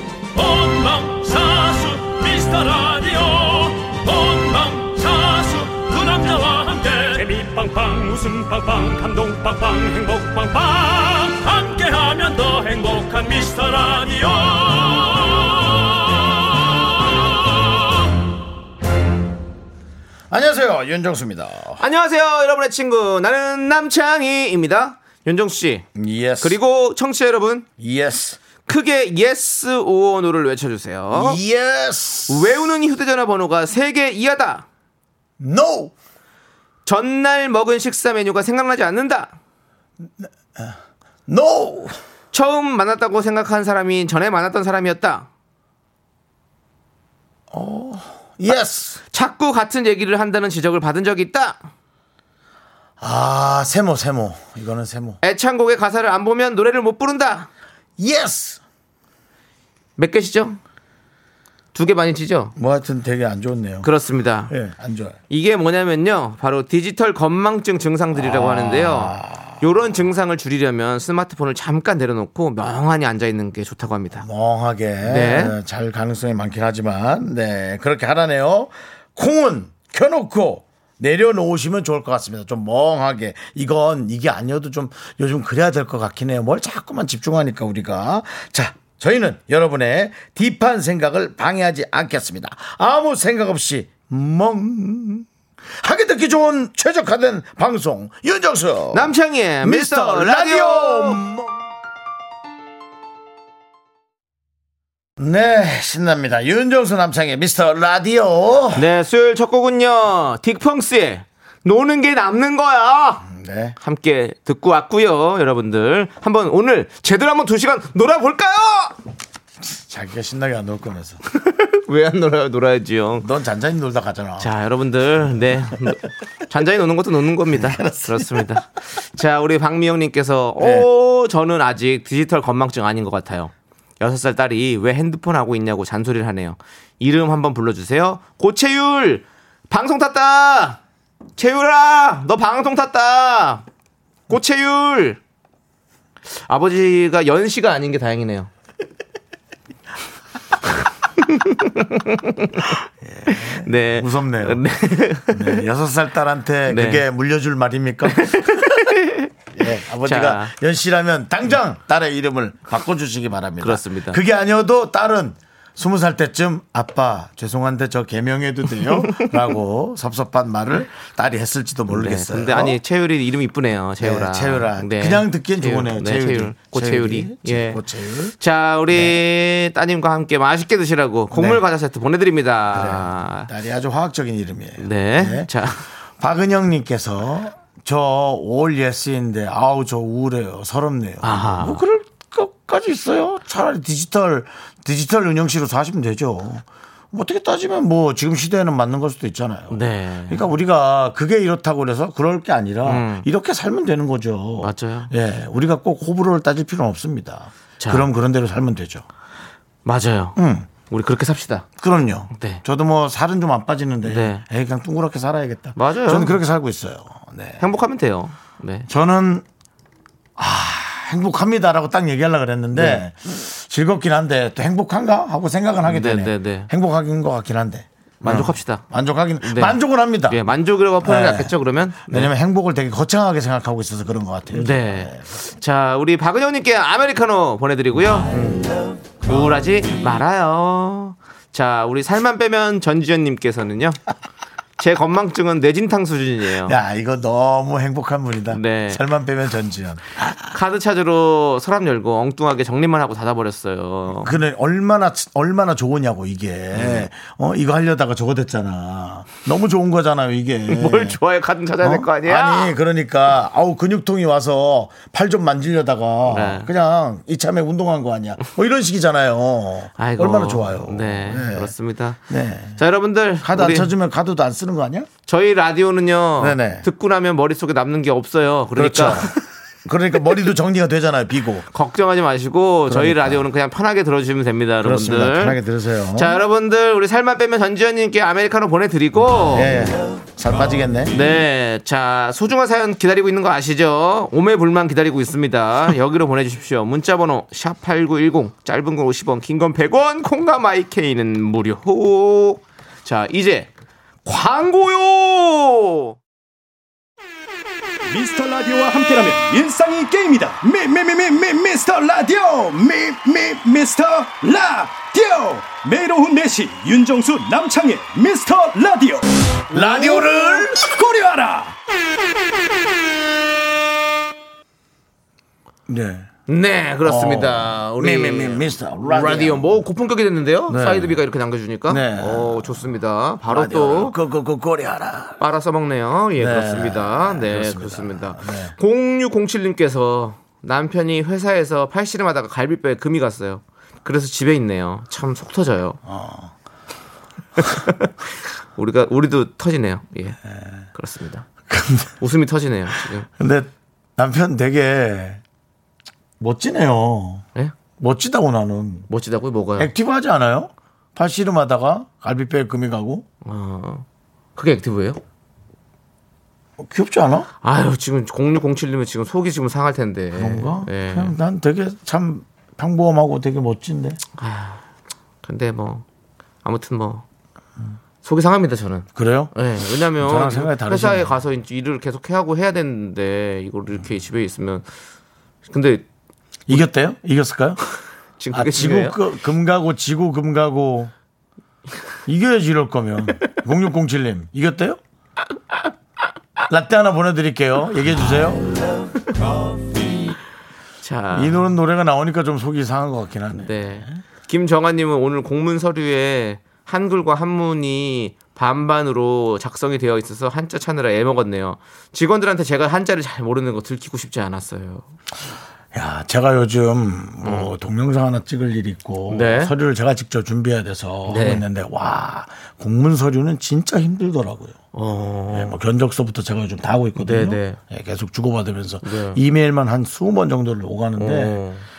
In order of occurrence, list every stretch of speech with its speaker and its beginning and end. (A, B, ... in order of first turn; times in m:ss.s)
0:00.3-0:16.8 A
0:20.3-0:21.8 B
0:21.8-0:25.8 C
0:25.9-0:26.6 B
0:26.4-0:27.7 C
0:27.8-0:28.4 B
0:28.6-0:31.4 C
0:31.1-0:32.5 B
0:32.3-0:34.6 C
0:35.4-0:35.9 B
0:36.8-0:39.4 C
0:40.2-0:42.0 B
0:42.3-0:45.3 C
0:47.5-0:49.0 B
0:49.1-0:51.6 C
0:53.0-0:55.2 B
0:55.2-0:57.5 C
0:58.0-0:58.6 B
1:00.0-1:00.6 C
1:01.7-1:02.5 C
1:02.6-1:03.9 B
1:03.8-1:04.5 C
1:04.5-1:05.2 B
1:05.3-1:14.2 C
1:08.1-1:09.6 B
1:14.1-1:35.3 B
1:15.0-1:15.6 C
1:35.8-1:41.7 B
1:38.9-1:41.2 C
1:45.2-1:48.9 B
1:48.7-1:53.2 C
1:53.2-1:53.8 B
1:53.8-1:58.9 C
1:59.7-2:01.2 B
2:01.3-2:03.3 C
2:03.2-2:04.5 B
2:04.4-2:20.8 C
2:07.5-2:08.6 B
2:10.6-2:10.9 B
2:21.4-2:23.6 C
2:24.3-2:25.2 C
2:26.5-2:28.5 C
2:31.2-2:32.7 C
2:33.0-2:34.6 B
2:33.3-2:35.6 C
2:35.3-2:38.9 B
2:36.7-2:37.0 C
2:38.1-2:39.3 C
2:39.5-2:52.8 B
2:40.0-2:40.5 C
2:43.6-2:44.2 C
2:51.9-2:57.8 C
2:54.0-2:58.3 B
2:58.4-3:03.5 C
2:58.9-2:59.2 B
3:01.3-3:01.6 B
3:02.7-3:05.5 B
3:04.8-3:05.8 C
3:06.2-3:29.0 B
3:11.2-3:11.8 C
3:19.7-3:20.4 C
3:22.8-3:23.3 C
3:24.6-3:25.1 C
3:27.8-3:28.1 C
3:29.8-3:31.6 C
3:30.4-3:30.7 B
3:31.8-3:37.6 B
3:32.3-3:32.6 C
3:34.0-3:34.4 C
3:35.8-3:36.4 C
3:37.6-3:38.9 C
3:38.9-3:39.4 B
3:40.4-3:50.4 B
3:42.7-3:43.0 C
3:45.8-3:46.7 C
3:48.2-3:48.8 C
3:49.4-3:52.3 C
3:51.0-3:55.2 B
3:54.5-3:58.3 C
3:58.2-3:58.7 B
3:59.2-4:04.0 C
4:04.8-4:06.8 C
4:06.6-4:10.4 B
4:08.5-4:09.0 C
4:10.5-4:14.3 C
4:14.2-4:21.2 B
4:16.7-4:17.0 C
4:20.7-4:22.7 C
4:21.8-4:31.7 B
4:26.2-4:26.7 C
4:30.0-4:32.2 C
4:32.3-4:32.8 B
4:32.8-4:33.9 C
4:33.4-4:35.1 B
4:35.3-4:39.4 C
4:36.4-4:36.8 B
4:38.8-4:41.7 B
4:41.7-4:45.6 C
4:42.9-4:43.4 B
4:44.8-4:46.4 B
4:46.1-4:49.8 C
4:49.5-4:51.1 B
4:51.1-5:03.7 C
5:04.2-5:06.2 C
5:08.0-5:21.8 D
5:19.7-5:20.8 B
5:19.7-5:20.4 C
5:25.9-5:26.3 B
5:26.5-5:34.2 C
5:27.0-5:29.8 B
5:30.7-5:31.2 B
5:31.9-5:32.9 B
5:33.4-5:35.4 B
5:35.4-5:46.0 C
5:36.4-5:38.7 B
5:46.0-5:46.5 B
5:47.6-5:48.1 C
5:48.7-5:50.4 C
5:50.9-5:51.4 C
5:51.7-5:52.1 B
5:52.2-5:53.3 C
5:53.4-5:55.4 B
5:56.4-5:57.4 B
5:58.0-5:59.1 B
5:59.1-5:59.9 C
5:59.8-6:03.2 B
6:03.4-6:04.0 C
6:04.6-6:05.2 C
6:06.8-6:07.5 B
6:07.6-6:11.3 C
6:10.3-6:14.2 B
6:14.4-6:14.8 C
6:15.4-6:16.0 C
6:16.6-6:17.2 C
6:18.2-6:24.8 C
6:19.1-6:19.5 B
6:20.1-6:21.4 B
6:25.7-6:26.0 C
6:26.7-6:27.8 B
6:28.4-6:29.2 C
6:28.5-6:31.1 B
6:32.2-6:35.0 B
6:36.6-6:38.7 B
6:41.0-6:41.6 C
6:41.3-6:44.2 B
6:43.6-6:55.1 C
6:55.9-7:04.8 B
6:57.4-6:57.7 C
6:59.3-6:59.7 C
7:01.3-7:01.6 C
7:04.9-7:05.8 C
7:05.5-7:11.6 B
7:07.2-7:07.8 C
7:09.0-7:09.4 C
7:11.2-7:11.9 C